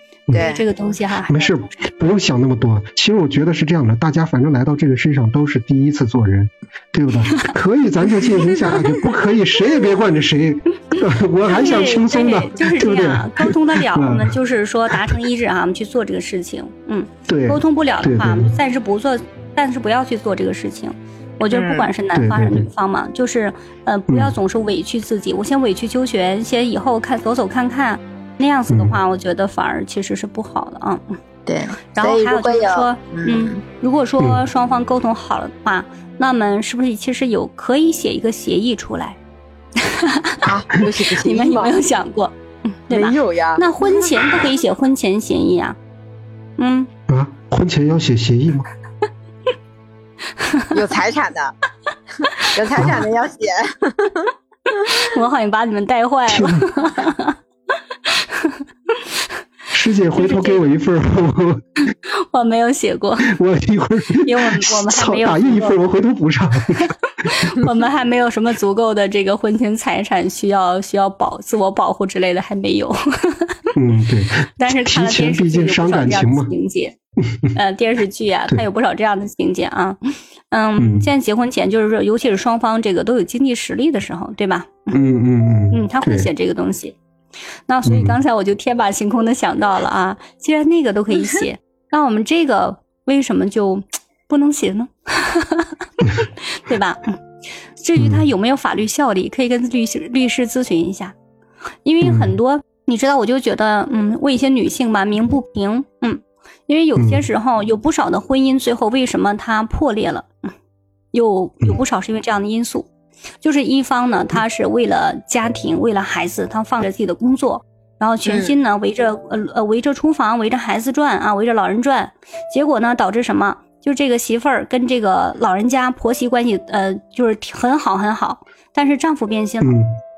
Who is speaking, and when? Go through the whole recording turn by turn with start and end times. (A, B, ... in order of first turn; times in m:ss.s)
0:00.3-0:01.8 A
0:00.3-0:00.6 B
0:01.3-0:14.4 C
0:07.2-0:07.5 A
0:08.2-0:08.7 A
0:10.9-0:31.0 A
0:17.3-0:18.5 C
0:21.5-0:21.9 B
0:22.1-0:22.7 C
0:24.1-0:24.4 C
0:28.7-0:29.0 C
0:31.4-0:33.6 B
0:31.9-0:39.2 A
0:34.2-0:34.4 C
0:39.8-0:40.5 A
0:40.4-0:41.8 B
0:41.2-0:42.3 A
0:42.9-0:45.8 A
0:42.9-0:44.0 B
0:46.6-0:46.9 A
0:47.1-0:48.7 C
0:50.4-0:50.6 A
0:50.7-0:51.5 B
0:52.4-0:54.3 B
0:52.8-0:53.0 C
0:54.8-0:57.4 A
0:56.3-0:56.6 C
0:58.0-0:59.0 A
0:59.7-1:01.6 C
1:00.1-1:00.7 A
1:02.1-1:03.3 A
1:03.2-1:07.6 C
1:04.2-1:05.8 A
1:06.7-1:13.6 A
1:13.7-1:16.5 C
1:14.6-1:16.9 A
1:17.2-1:17.6 C
1:17.5-1:20.0 A
1:20.5-1:25.0 A
1:20.8-1:21.1 C
1:24.9-1:26.3 C
1:25.7-1:27.0 A
1:27.7-1:35.7 A
1:27.8-1:28.2 C
1:36.5-1:37.1 A
1:37.8-1:41.1 A
1:38.0-1:38.3 C
1:41.8-1:50.3 A
1:42.0-1:42.4 C
1:47.0-1:47.2 C
1:51.1-1:52.9 A
1:53.4-2:09.8 A
1:58.2-1:58.6 B
2:09.6-2:09.9 C